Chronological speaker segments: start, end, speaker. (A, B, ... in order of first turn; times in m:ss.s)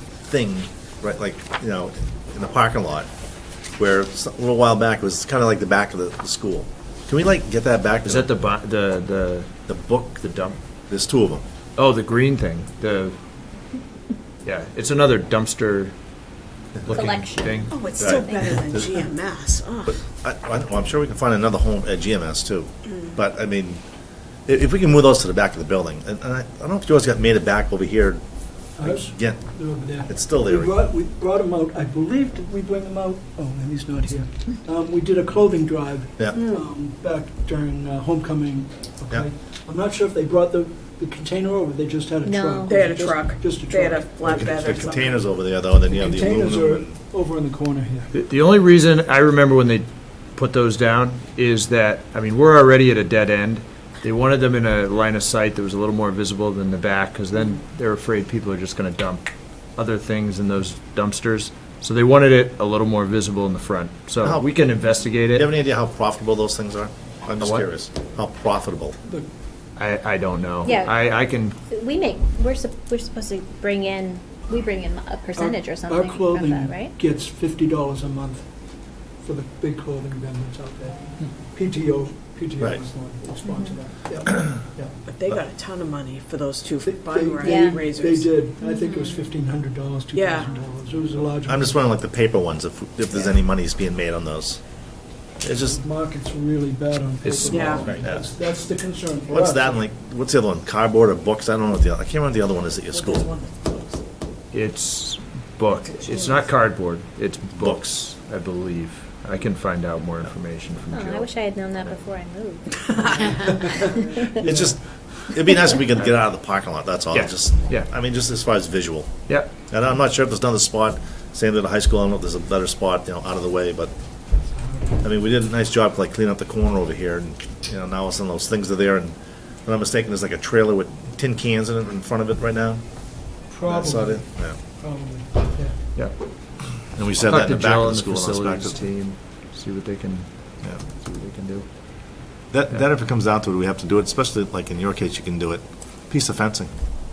0:00.3-0:03.1 A
0:03.8-0:08.3 A
0:08.0-0:09.5 B
0:09.7-0:11.4 A
0:10.2-0:10.5 B
0:11.8-0:13.2 B
0:14.4-0:15.9 B
0:16.8-0:17.8 B
0:16.9-0:18.5 C
0:17.7-0:19.9 D
0:18.0-0:19.0 A
0:19.9-0:23.8 A
0:24.5-0:28.2 A
0:28.8-0:45.1 E
0:28.8-0:29.4 A
0:30.0-0:30.8 A
0:36.4-0:36.6 D
0:42.2-0:42.8 C
0:42.7-0:45.2 D
0:44.2-0:47.0 A
0:45.9-0:48.1 E
0:48.1-0:59.2 B
0:59.8-1:05.5 B
1:04.2-1:04.5 A
1:05.3-1:09.0 A
1:07.4-1:07.7 B
1:09.8-1:11.6 B
1:10.6-1:11.0 C
1:11.7-1:17.0 C
1:15.4-1:18.4 E
1:19.2-1:25.0 E
1:23.5-1:23.8 C
1:25.1-1:28.4 D
1:26.8-1:31.9 E
1:27.4-1:27.8 C
1:28.6-1:29.2 C
1:30.1-1:30.5 D
1:31.5-1:34.6 A
1:35.4-1:35.8 A
1:35.8-1:39.9 E
1:37.2-1:37.7 B
1:37.5-1:37.9 D
1:37.8-1:38.3 A
1:39.3-1:43.3 A
1:43.0-1:43.7 D
1:44.5-1:52.0 B
1:50.9-1:54.4 C
1:54.3-1:59.1 A
1:54.4-1:54.8 E
1:57.1-1:57.9 B
1:59.7-2:03.9 A
2:04.5-2:05.0 E
2:05.0-2:12.8 A
2:13.5-2:15.8 E
2:13.7-2:14.6 A
2:17.0-2:18.8 A
2:17.2-2:21.7 B
2:22.5-2:26.7 A